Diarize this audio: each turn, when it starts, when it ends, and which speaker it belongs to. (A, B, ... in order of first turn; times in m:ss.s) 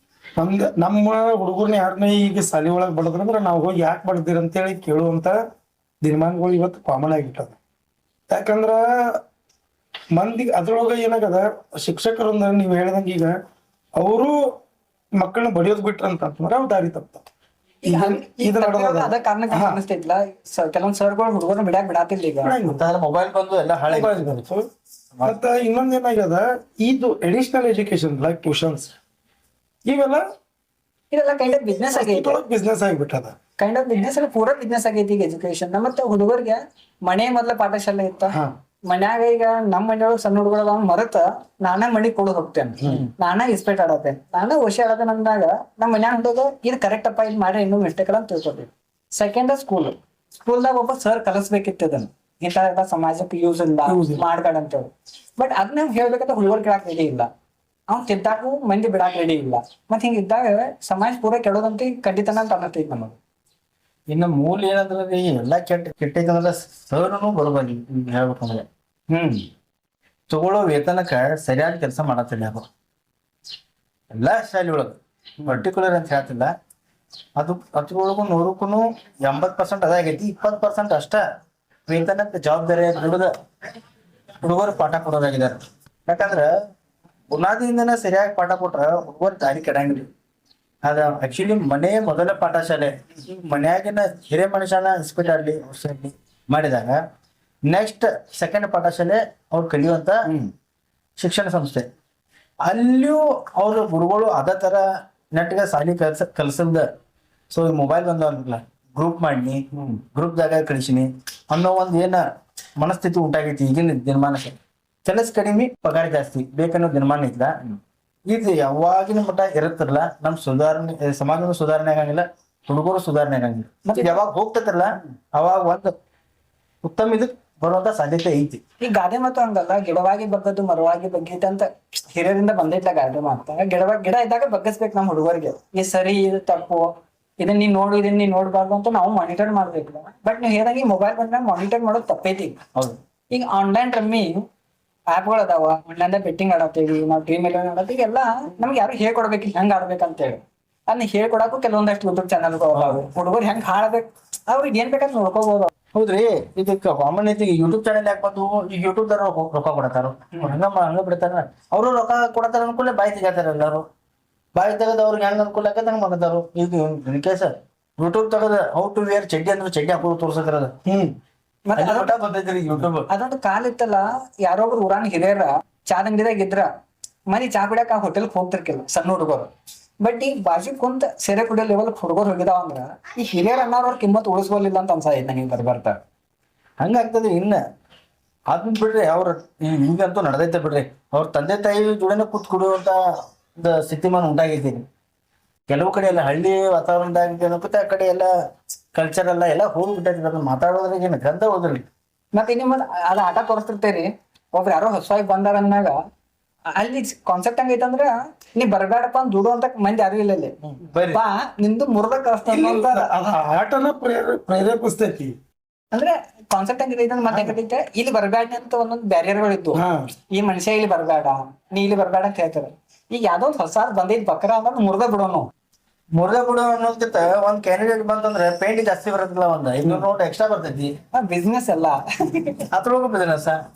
0:00.4-0:05.4 A
0:06.0-0:07.6 A
0:08.3-0:08.9 A
0:10.1-0:13.3 A
0:14.0-0:14.4 A
0:15.2-0:17.2 A
0:17.8-0:22.5 B
0:17.8-0:19.8 A
0:22.4-0:22.8 A
0:22.6-0:24.3 C
0:23.9-0:24.7 A
0:25.2-0:28.9 A
0:29.8-0:30.2 A
0:31.1-0:32.4 B
0:31.8-0:33.3 A
0:33.6-0:38.4 B
0:38.9-0:57.3 B
0:53.9-0:54.2 A
0:57.9-1:03.2 B
1:04.1-1:08.7 C
1:09.1-1:09.5 B
1:10.3-1:12.7 C
1:14.1-1:16.5 C
1:17.4-1:21.2 C
1:21.9-1:23.3 C
1:24.4-1:26.5 C
1:27.3-1:30.1 C
1:30.9-1:37.0 C
1:37.7-1:40.2 C
1:41.2-1:41.9 C
1:42.6-1:46.9 C
1:47.5-1:52.2 C
1:49.7-1:50.0 B
1:52.8-1:57.5 C
1:58.3-2:05.9 C
2:03.9-2:04.2 B
2:06.8-2:08.6 C
2:08.8-2:16.9 B
2:17.4-2:22.6 B
2:23.3-2:24.4 B
2:25.1-2:35.7 B
2:32.8-2:33.0 C
2:35.9-2:43.8 C
2:44.6-2:50.7 C
2:50.9-2:51.2 A
2:51.7-2:52.1 B
2:51.8-2:53.1 C
2:53.1-2:56.7 B
2:57.3-2:59.5 B
3:00.0-3:06.0 B
3:06.8-3:07.6 C
3:08.5-3:13.0 C
3:13.6-3:14.8 C
3:15.7-3:18.3 C
3:18.9-3:21.8 C
3:22.4-3:26.0 B
3:26.7-3:30.6 B
3:30.8-3:31.2 C
3:31.1-3:33.1 B
3:32.5-3:35.4 A
3:35.9-3:45.5 B
3:39.8-3:40.1 A
3:46.2-3:50.9 C
3:51.1-3:52.6 B
3:52.7-3:53.6 C